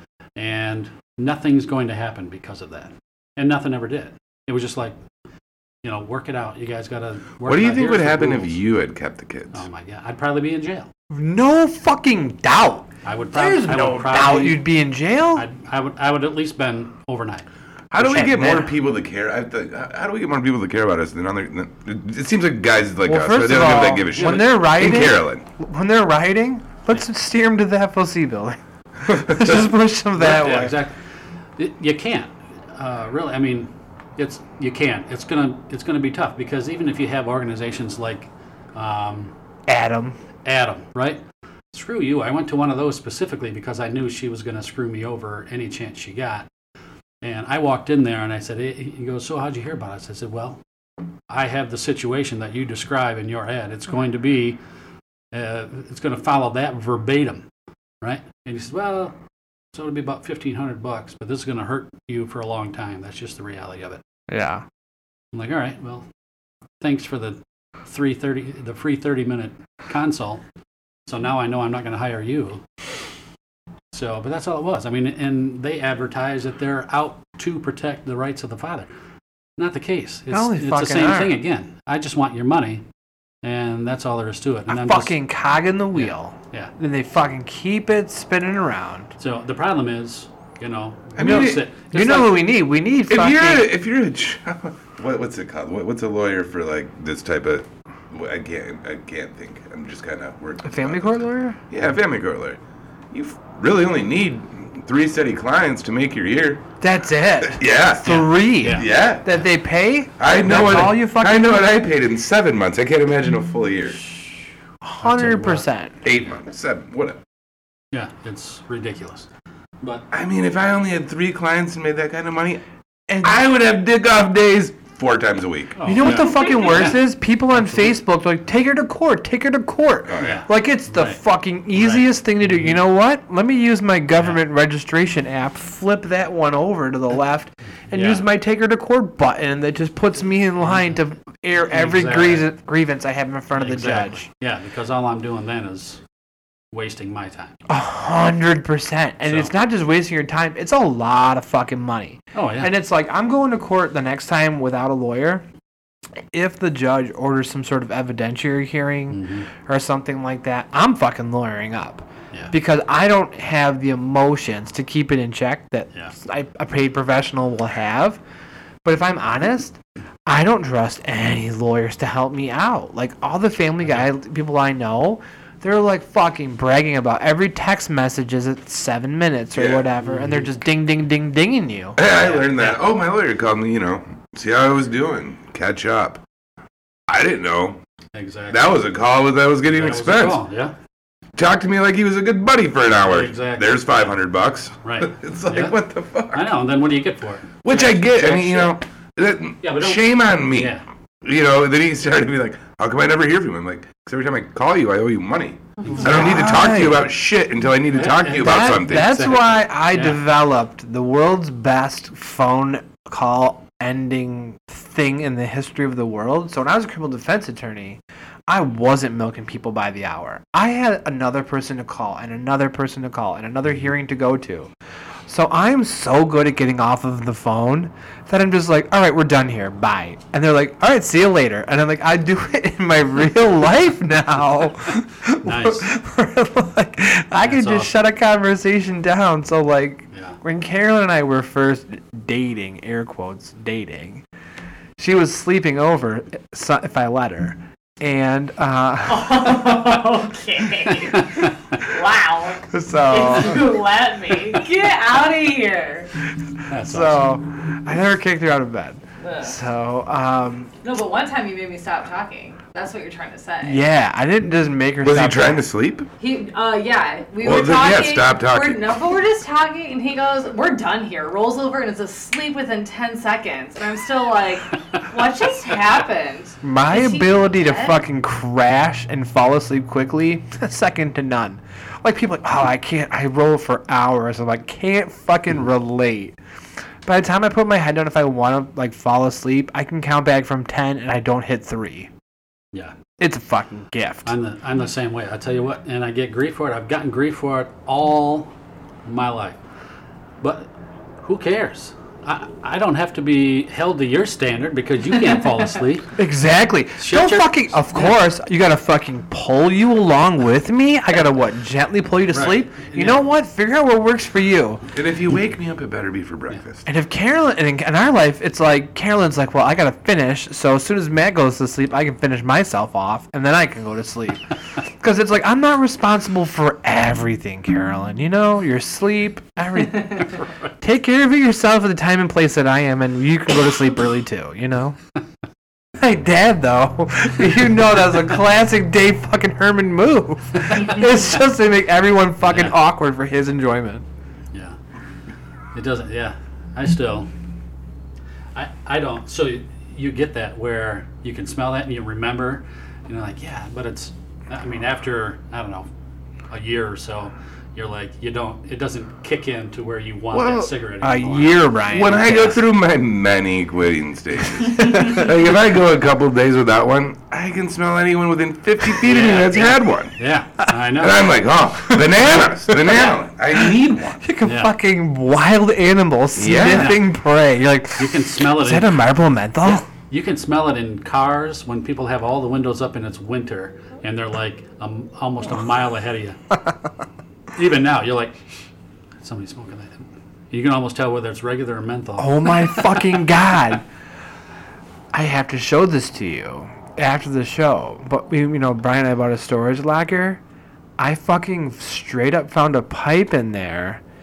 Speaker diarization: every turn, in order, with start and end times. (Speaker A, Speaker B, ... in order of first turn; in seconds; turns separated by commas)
Speaker A: 0.4-5.0, Speaker A: 5.8-8.6, Speaker B: 7.4-9.7, Speaker A: 9.5-10.9, Speaker C: 11.1-15.5, Speaker A: 13.1-14.7, Speaker A: 15.3-17.5, Speaker B: 17.9-25.4, Speaker C: 18.0-18.7, Speaker C: 23.1-30.8, Speaker A: 24.1-24.7, Speaker B: 29.3-29.7, Speaker A: 30.2-31.0, Speaker A: 31.6-39.3, Speaker C: 39.7-40.2, Speaker A: 40.5-46.5, Speaker A: 47.2-50.6, Speaker A: 51.3-54.6, Speaker A: 55.3-57.5, Speaker A: 58.0-59.1, Speaker A: 59.7-64.0, Speaker C: 64.3-64.7, Speaker A: 65.3-66.1, Speaker A: 66.8-70.4, Speaker A: 71.1-72.6, Speaker A: 73.9-78.9, Speaker A: 79.6-82.8, Speaker C: 80.3-81.4, Speaker A: 83.4-85.2, Speaker C: 84.7-89.1, Speaker A: 85.9-86.7, Speaker A: 89.2-92.5, Speaker B: 91.2-91.6, Speaker C: 91.2-93.7, Speaker B: 93.1-102.6, Speaker C: 100.6-101.6, Speaker B: 103.1-106.7, Speaker C: 106.8-111.7, Speaker B: 107.4-109.4, Speaker A: 108.1-108.9, Speaker B: 110.2-114.0, Speaker C: 114.8-116.0, Speaker A: 115.0-115.7, Speaker B: 116.0-117.2, Speaker A: 117.9-119.3, Speaker B: 120.1-122.6, Speaker C: 123.1-123.4, Speaker B: 123.2-125.8, Speaker A: 125.8-127.0, Speaker C: 125.8-144.3, Speaker A: 127.6-127.9, Speaker B: 130.1-130.4, Speaker A: 130.2-131.2, Speaker A: 131.8-132.8, Speaker A: 137.9-138.3, Speaker A: 140.6-141.0, Speaker A: 141.6-142.5, Speaker A: 143.5-146.0, Speaker A: 146.7-147.5, Speaker C: 147.7-155.4, Speaker A: 149.3-149.5, Speaker A: 152.3-152.7, Speaker C: 156.3-168.2, Speaker A: 159.1-159.5, Speaker C: 168.8-182.0, Speaker A: 173.8-174.1, Speaker B: 179.6-179.9, Speaker A: 180.0-180.5, Speaker B: 182.0-186.2, Speaker A: 182.0-182.8, Speaker B: 187.1-187.8, Speaker A: 188.1-188.8, Speaker B: 188.5-190.4, Speaker A: 189.7-190.7, Speaker B: 191.4-196.5, Speaker A: 193.0-194.0, Speaker A: 194.8-195.8, Speaker A: 196.3-198.7, Speaker B: 197.6-209.3, Speaker A: 199.6-200.8, Speaker A: 205.8-206.3, Speaker C: 205.9-207.1, Speaker A: 207.9-210.2, Speaker C: 208.3-224.7, Speaker C: 225.3-244.2, Speaker A: 235.4-235.9, Speaker A: 237.4-238.0, Speaker A: 240.1-240.4, Speaker C: 245.0-249.9, Speaker D: 249.1-256.1, Speaker C: 252.7-253.8, Speaker A: 256.7-257.2, Speaker C: 256.8-260.7, Speaker D: 259.2-259.6, Speaker D: 260.8-263.8, Speaker C: 263.6-265.6, Speaker B: 265.0-266.1, Speaker D: 266.2-278.0, Speaker B: 267.4-269.0, Speaker C: 276.6-286.4, Speaker C: 287.1-292.1, Speaker C: 293.2-294.3, Speaker A: 294.3-298.5, Speaker A: 299.1-299.6, Speaker A: 300.4-306.1, Speaker C: 306.2-314.8, Speaker A: 307.0-308.1, Speaker A: 312.3-313.2, Speaker B: 314.9-316.9, Speaker C: 316.9-324.4, Speaker C: 325.0-335.0, Speaker C: 336.0-344.1, Speaker A: 342.4-342.8, Speaker A: 344.5-344.8, Speaker A: 345.7-347.3, Speaker A: 348.5-355.9, Speaker A: 356.5-362.0, Speaker B: 360.3-360.7, Speaker C: 361.0-362.6, Speaker B: 361.9-370.1, Speaker C: 364.8-365.2, Speaker A: 369.0-371.3, Speaker B: 371.0-374.2, Speaker C: 371.9-379.9, Speaker A: 374.4-374.7, Speaker B: 376.4-377.0, Speaker A: 376.6-377.0, Speaker A: 378.0-379.0, Speaker A: 379.6-386.4, Speaker A: 387.6-388.4, Speaker A: 389.2-393.2, Speaker C: 392.2-393.8, Speaker C: 395.1-400.4, Speaker C: 401.0-404.0